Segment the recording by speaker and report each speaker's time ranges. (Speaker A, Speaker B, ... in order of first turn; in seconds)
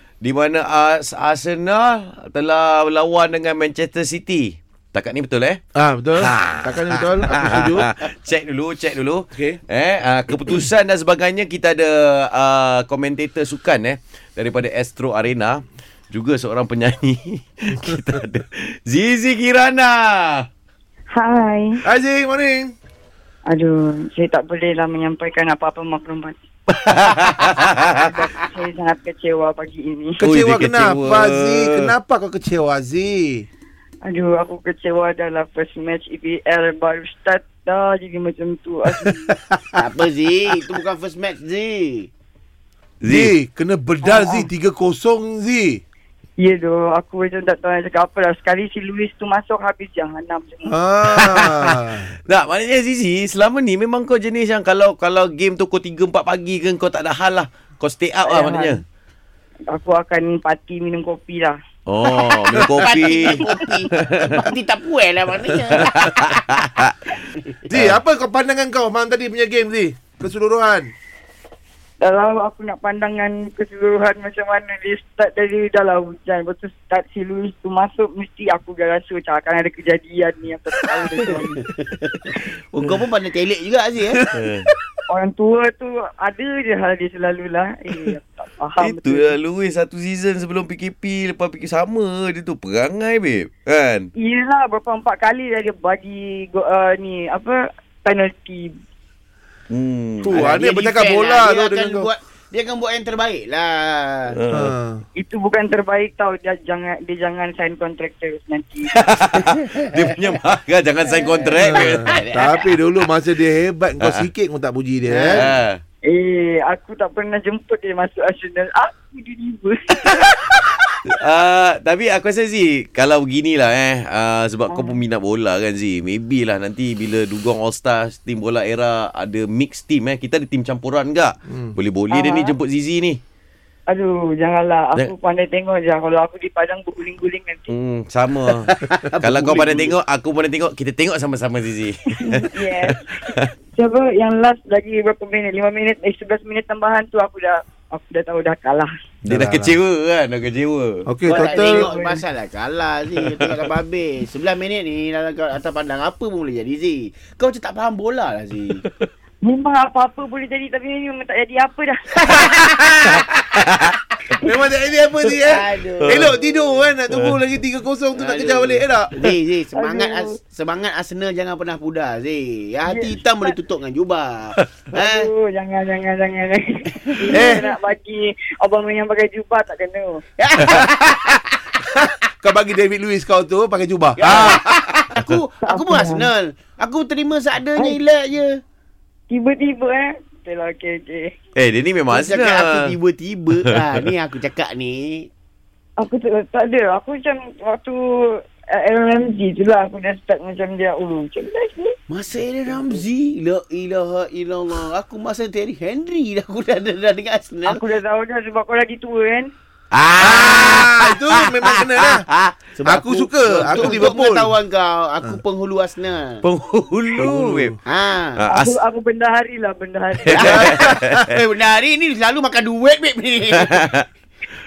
Speaker A: 0.2-5.6, 6.2-20.5, 26.7-28.1, 30.2-31.9, 43.0-43.3, 51.1-58.8, 61.9-63.4, 64.0-64.5, 65.7-67.1, 84.3-84.7, 88.8-94.1, 99.7-100.5, 104.3-104.7, 108.9-112.2, 114.0-114.2, 115.3-115.8, 121.0-133.2, 137.7-143.5, 149.3-151.1, 153.4-153.6, 163.0-164.0, 166.0-166.3, 167.1-167.4, 191.6-192.9, 216.4-217.8, 218.4-218.8, 220.3-221.2, 223.7-224.0
Speaker B: 5.8-7.9, 9.3-9.6, 21.9-22.7, 30.2-33.5, 39.1-39.8, 43.1-45.8, 50.6-52.1, 62.5-62.8, 67.7-70.9, 100.2-102.1, 104.5-105.0, 111.6-115.5, 149.2-149.8, 151.1-151.9, 164.4-169.2, 177.3-177.7, 182.4-185.1, 210.2-212.3, 212.8-214.5, 217.2-217.8, 220.5-221.2
Speaker C: 21.1-21.8, 23.5-26.4, 28.0-30.2, 34.1-39.3, 44.0-44.5, 46.4-50.8, 58.3-58.8, 59.7-61.6, 72.0-81.7, 85.1-89.4, 94.2-98.7, 105.2-109.0, 116.1-120.7, 124.7-125.0, 132.1-132.5, 133.9-137.7, 142.2-143.2, 143.8-148.9, 151.2-152.2, 159.4-162.1, 169.8-170.3, 172.9-173.5, 174.9-180.2, 185.6-186.3, 189.3-191.3, 196.0-198.0, 198.7-202.0, 202.7-203.0, 207.7-209.5, 218.5-220.6
Speaker D: 39.8-42.1, 62.8-66.5, 81.8-84.3, 100.3-104.4, 111.3-112.8, 115.1-115.5, 138.7-140.0, 151.3-158.8, 165.5-166.9, 168.2-175.3, 177.2-177.6, 180.4-181.6, 184.2-188.6, 192.1-195.3, 202.1-207.8, 209.9-216.4, 217.9-218.4, 220.3-223.8